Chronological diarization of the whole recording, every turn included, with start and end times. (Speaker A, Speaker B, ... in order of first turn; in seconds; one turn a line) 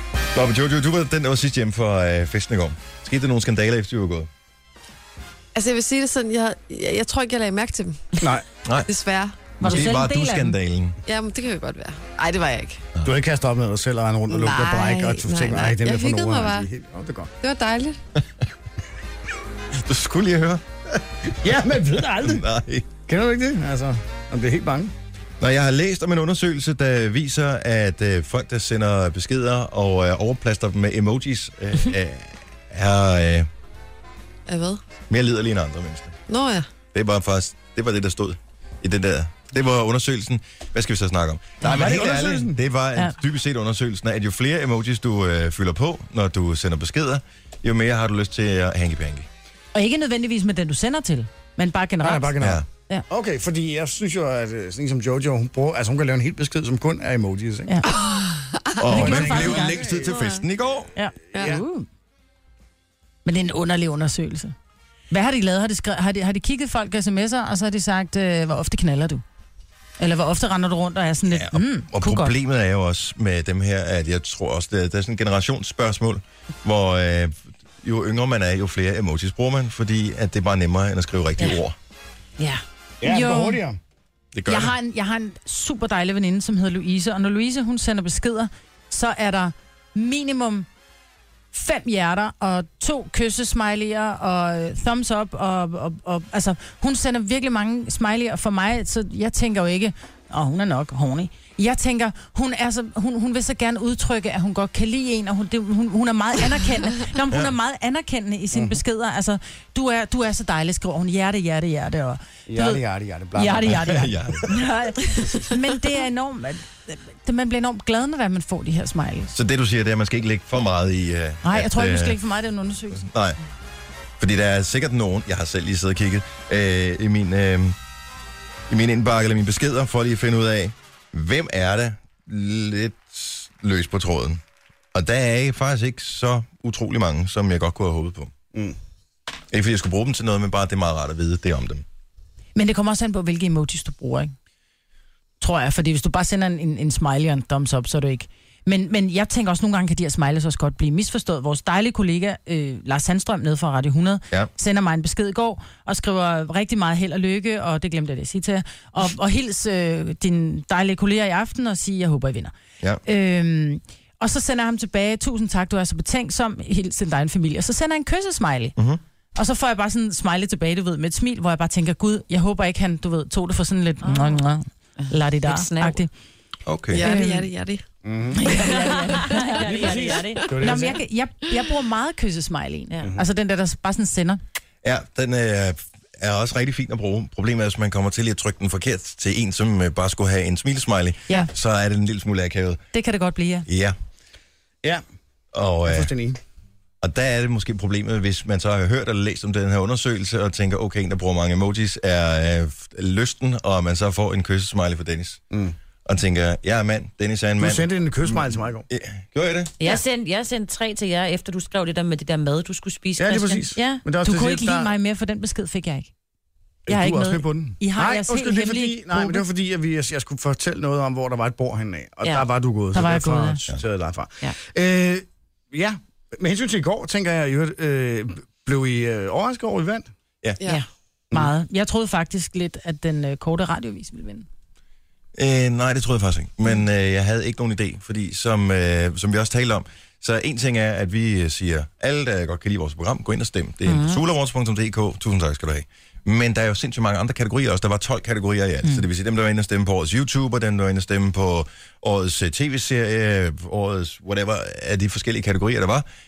Speaker A: 0.3-4.3
Speaker B: 5.5-8.2
Speaker C: 8.2-8.5
Speaker A: 8.6-8.9
Speaker B: 8.9-9.4
Speaker D: 9.6-10.6
Speaker A: 9.6-11.0
Speaker B: 11.1-12.8
Speaker C: 13.0-17.3
Speaker B: 14.3-16.7
Speaker B: 17.4-18.0
Speaker A: 19.8-21.4
Speaker C: 21.4-22.4
Speaker A: 22.1-22.9
Speaker C: 23.1-24.9
Speaker A: 25.4-33.5
Speaker B: 34.5-34.8
Speaker A: 35.1-36.2
Speaker B: 36.3-36.7
Speaker A: 36.9-49.3
Speaker C: 41.6-42.6
Speaker D: 49.7-53.0
Speaker C: 52.0-57.8
Speaker A: 52.4-52.6
Speaker B: 57.9-59.0
Speaker A: 58.8-60.9
Speaker C: 58.9-60.1
Speaker D: 58.9-59.8
Speaker B: 60.1-60.4
Speaker D: 61.0-61.9
Speaker C: 61.3-61.6
Speaker B: 61.3-61.6
Speaker D: 63.2-64.5
Speaker D: 65.1-69.2
Speaker D: 70.0-72.3
Speaker A: 71.3-81.8
Speaker C: 83.0-83.8
Speaker D: 83.0-83.6
Speaker A: 84.3-84.7
Speaker D: 84.5-90.7
Speaker D: 91.5-112.8
Speaker C: 108.5-108.8
Speaker C: 112.5-113.9
Speaker D: 113.3-119.3
Speaker A: 113.7-114.5
Speaker A: 119.3-122.2
Speaker D: 121.4-123.1
Speaker A: 123.0-123.4
Speaker A: 124.2-127.8
Speaker A: 128.7-134.4
Speaker A: 134.9-138.3
Speaker A: 139.5-141.8
Speaker D: 142.6-144.3
Speaker D: 145.4-162.5
Speaker D: 163.1-168.8
Speaker A: 168.8-169.0
Speaker D: 169.4-176.1
Speaker E: 174.0-174.4
Speaker E: 175.0-176.0
Speaker A: 176.7-177.1
Speaker B: 176.9-177.8
Speaker D: 176.9-177.5
Speaker C: 178.0-178.6
Speaker D: 178.4-184.4
Speaker E: 178.6-180.5
Speaker C: 179.6-181.0
Speaker A: 184.8-192.8
Speaker D: 192.9-193.7
Speaker A: 193.7-194.0
Speaker A: 195.5-196.1
Speaker C: 195.8-196.4
Speaker A: 197.0-205.4
Speaker A: 206.1-209.7
Speaker C: 207.6-208.9
Speaker E: 209.8-214.0
Speaker C: 213.2-214.9
Speaker D: 214.2-216.1
Speaker C: 216.9-230.1
Speaker D: 216.9-219.4
Speaker D: 222.9-223.6
Speaker D: 231.3-234.5
Speaker A: 235.4-256.1
Speaker E: 243.8-244.2